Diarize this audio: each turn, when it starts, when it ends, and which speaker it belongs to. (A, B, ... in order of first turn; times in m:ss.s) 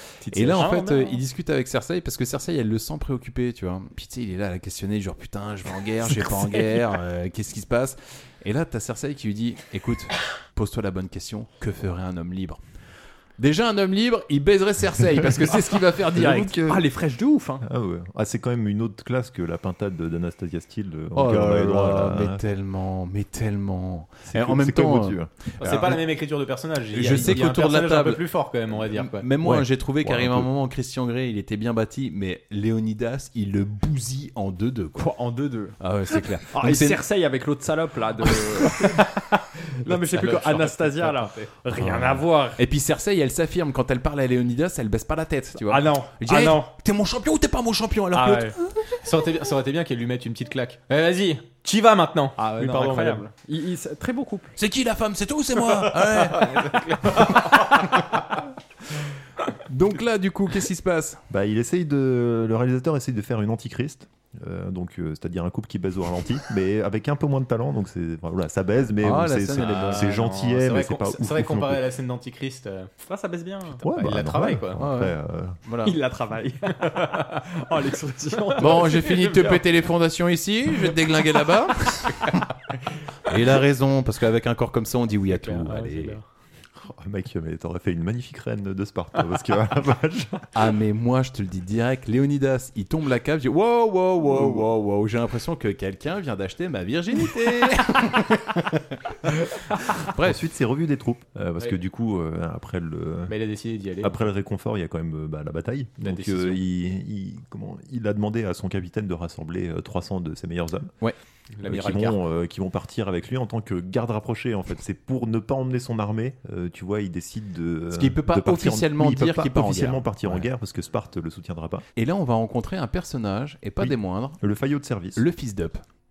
0:00.2-0:00.8 A
0:00.3-0:12.6 B
0:00.6-0:01.2 C
0:13.4-0:16.5 B
0:16.1-0:16.8 D
0:16.2-0:17.6 C
0:17.6-0:22.4 D
0:21.1-0:26.0 B
0:24.3-0:25.9 D
0:25.6-0:29.3 A
0:26.9-0:35.1 B
0:29.4-0:30.5 D
0:35.0-0:35.7 C
0:35.8-0:37.0 B
0:36.5-0:42.6 C
0:38.6-0:39.0 B
0:40.2-0:41.5 A
0:41.8-0:42.1 D
0:41.8-0:48.7 B
0:45.6-0:46.7 C
0:48.1-0:48.6 C
0:49.0-0:53.2 A
0:52.4-0:54.5 C
0:54.6-0:58.1 B
0:56.3-0:57.9 A
0:59.7-1:01.2 B
1:01.3-1:11.8 D
1:09.0-1:10.1 B
1:09.6-1:12.9 A
1:13.0-1:13.8 C
1:13.8-1:15.6 D
1:13.9-1:14.8 A
1:14.8-1:16.0 B
1:15.8-1:19.5 C
1:18.6-1:22.5 B
1:23.2-1:26.2 B
1:25.3-1:26.2 A
1:26.8-1:30.5 D
1:30.5-1:40.4 B
1:40.2-1:43.3 D
1:43.3-1:44.2 A
1:44.0-1:50.9 D
1:46.0-1:46.6 A
1:51.6-1:52.2 A
1:51.6-2:01.8 D
1:57.9-2:00.5 B
2:02.0-2:04.4 B
2:03.8-2:05.2 D
2:05.2-2:05.8 B